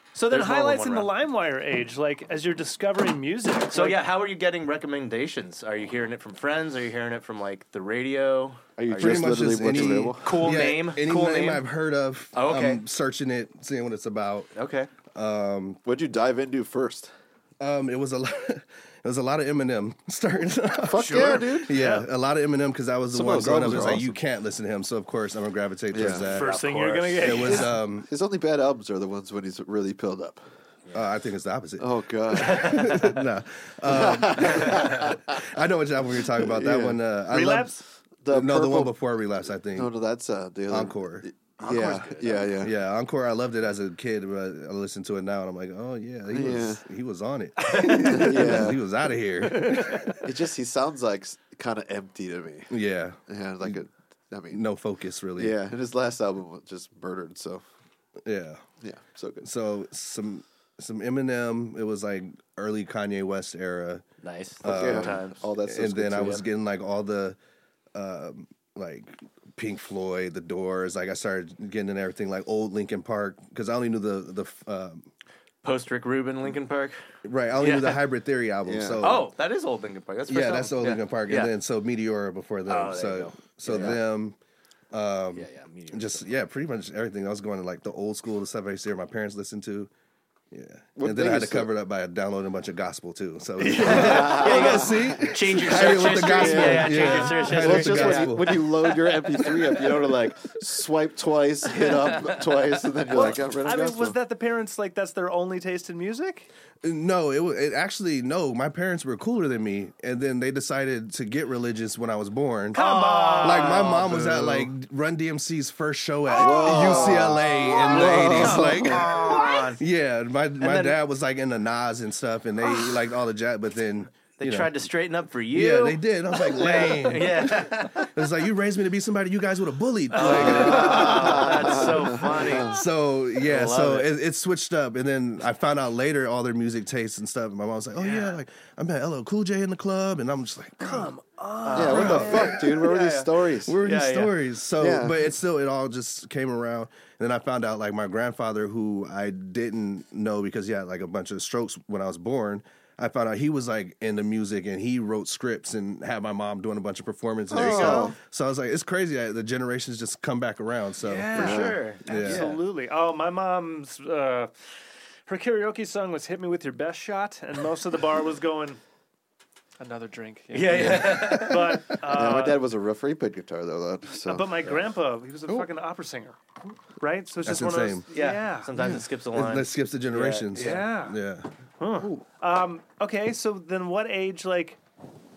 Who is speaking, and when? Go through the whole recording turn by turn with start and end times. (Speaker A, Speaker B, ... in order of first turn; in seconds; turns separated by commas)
Speaker A: 0.1-4.0, Speaker B: 0.3-1.1, Speaker B: 3.7-11.6, Speaker C: 8.8-10.3, Speaker D: 8.9-14.5, Speaker B: 12.3-12.8, Speaker B: 14.5-14.9, Speaker D: 15.1-15.8, Speaker C: 15.8-17.1, Speaker D: 17.6-26.5, Speaker C: 20.8-21.8, Speaker A: 21.0-21.6, Speaker C: 23.1-24.1, Speaker C: 25.9-26.3, Speaker B: 26.2-27.7, Speaker A: 26.3-27.7, Speaker D: 27.2-28.1, Speaker C: 27.9-30.4, Speaker D: 30.9-37.8, Speaker C: 31.8-32.9, Speaker B: 32.3-33.2, Speaker C: 33.9-35.4, Speaker B: 34.5-35.1, Speaker C: 36.2-37.0, Speaker A: 37.3-37.8, Speaker C: 38.2-39.0, Speaker D: 38.3-39.9, Speaker C: 39.7-42.7, Speaker D: 40.7-41.2, Speaker B: 41.6-42.5, Speaker D: 42.6-50.1, Speaker C: 46.3-46.8, Speaker A: 47.7-48.3, Speaker C: 48.0-48.8, Speaker A: 49.5-50.2, Speaker C: 50.2-52.7, Speaker D: 52.7-53.8, Speaker C: 53.3-54.6, Speaker D: 54.5-55.5, Speaker C: 55.4-57.6, Speaker D: 58.2-58.6, Speaker C: 58.8-59.5, Speaker D: 59.4-64.0, Speaker B: 64.2-65.4, Speaker D: 64.6-67.4, Speaker C: 64.6-66.5, Speaker D: 67.9-75.1, Speaker B: 75.6-77.0, Speaker D: 77.2-79.3, Speaker B: 77.6-78.0, Speaker C: 78.6-79.2, Speaker B: 79.0-81.5, Speaker D: 80.3-84.4, Speaker B: 82.7-84.0, Speaker D: 84.9-89.9, Speaker B: 85.3-86.2, Speaker D: 90.5-98.7, Speaker C: 91.0-91.7, Speaker B: 93.6-99.1, Speaker A: 93.8-94.6, Speaker C: 93.8-95.2, Speaker C: 96.0-104.2, Speaker A: 96.6-97.5, Speaker A: 103.1-106.5, Speaker D: 106.8-112.8, Speaker B: 112.7-114.3, Speaker A: 112.7-114.0, Speaker D: 113.4-124.7, Speaker C: 114.1-114.7, Speaker C: 116.3-119.1, Speaker A: 116.4-117.9, Speaker B: 116.5-119.8, Speaker A: 119.3-119.5, Speaker B: 120.6-121.0, Speaker B: 124.4-128.1, Speaker D: 125.5-131.9, Speaker B: 130.1-132.8, Speaker A: 130.2-132.4, Speaker C: 130.3-132.7, Speaker D: 132.6-141.1, Speaker B: 133.4-134.1, Speaker A: 140.8-142.7, Speaker B: 141.6-144.3, Speaker C: 141.7-143.8, Speaker D: 141.8-142.6, Speaker D: 143.6-162.5, Speaker C: 144.8-145.2, Speaker C: 157.5-158.2, Speaker A: 157.5-158.1, Speaker A: 161.0-164.5, Speaker B: 161.3-162.6, Speaker C: 161.3-161.8, Speaker A: 165.3-168.8, Speaker A: 169.8-172.6, Speaker B: 170.5-171.9, Speaker C: 170.7-171.3, Speaker C: 172.1-174.6, Speaker A: 174.2-176.4, Speaker A: 177.0-178.7, Speaker D: 177.4-178.0, Speaker B: 178.1-180.9, Speaker C: 178.8-179.0, Speaker D: 179.3-181.5, Speaker A: 180.5-181.2, Speaker A: 181.8-184.8